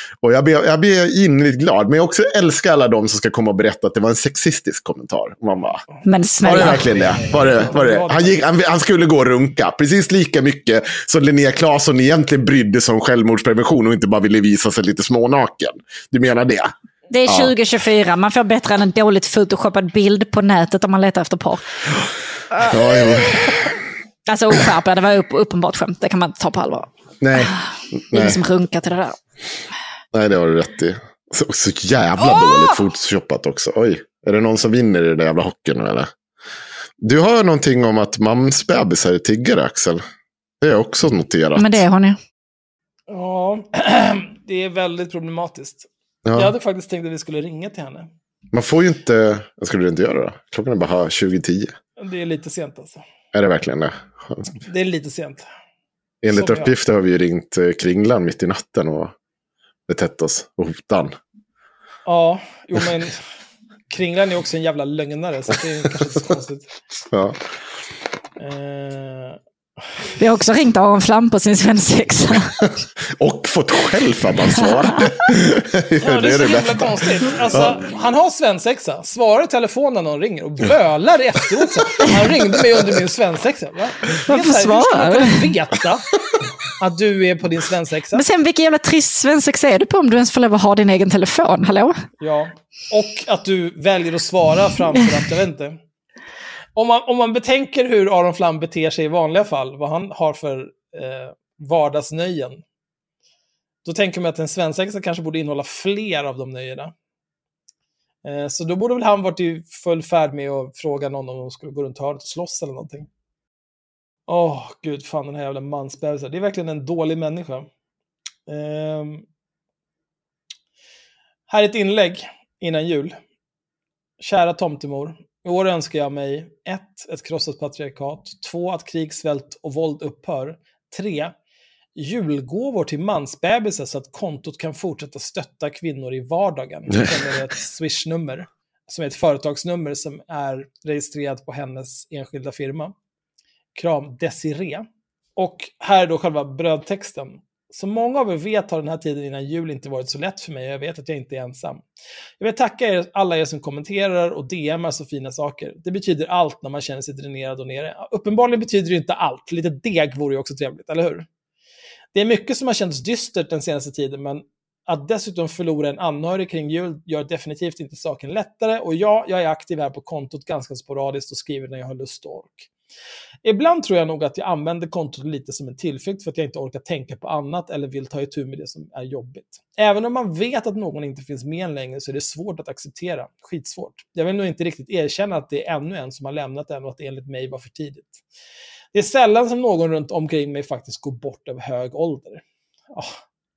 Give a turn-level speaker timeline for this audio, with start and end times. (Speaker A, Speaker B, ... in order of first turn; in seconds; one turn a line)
Speaker A: 0.2-5.8
Speaker B: 6.0-6.8
Speaker A: 6.4-16.7
Speaker C: 6.5-8.4
Speaker B: 17.1-21.6
Speaker A: 17.2-17.5
Speaker B: 22.5-23.6
Speaker A: 22.7-23.7
Speaker B: 24.3-27.6
Speaker A: 27.2-27.5
Speaker A: 28.1-28.4
Speaker B: 28.1-29.2
Speaker A: 30.1-36.1
Speaker B: 32.2-32.7
Speaker A: 37.0-40.0
Speaker A: 40.6-41.8
Speaker B: 41.5-42.2
Speaker C: 43.1-48.1
Speaker A: 46.2-46.5
Speaker A: 48.5-51.7
Speaker C: 52.0-53.0
Speaker A: 53.3-54.5
Speaker C: 54.6-55.4
Speaker A: 56.2-59.1
Speaker C: 56.3-56.7
Speaker A: 59.9-61.1
Speaker C: 62.0-63.2
Speaker C: 63.9-66.7
Speaker A: 67.1-67.4
Speaker C: 68.4-69.4
Speaker B: 70.2-72.5
Speaker A: 72.6-77.8
Speaker B: 74.9-75.2
Speaker C: 76.0-86.1
Speaker B: 84.3-85.4
Speaker C: 86.8-88.2
Speaker B: 88.1-92.0
Speaker C: 92.2-95.8
Speaker C: 96.8-102.6
Speaker C: 103.8-106.9
Speaker C: 108.2-113.1
Speaker C: 114.3-117.7
Speaker C: 118.5-119.2
Speaker C: 121.5-123.2
Speaker C: 124.2-131.3
Speaker C: 131.9-142.9
Speaker C: 143.7-151.8
Speaker C: 152.4-161.2
Speaker C: 162.1-172.7
Speaker C: 173.4-188.2
Speaker C: 188.9-193.2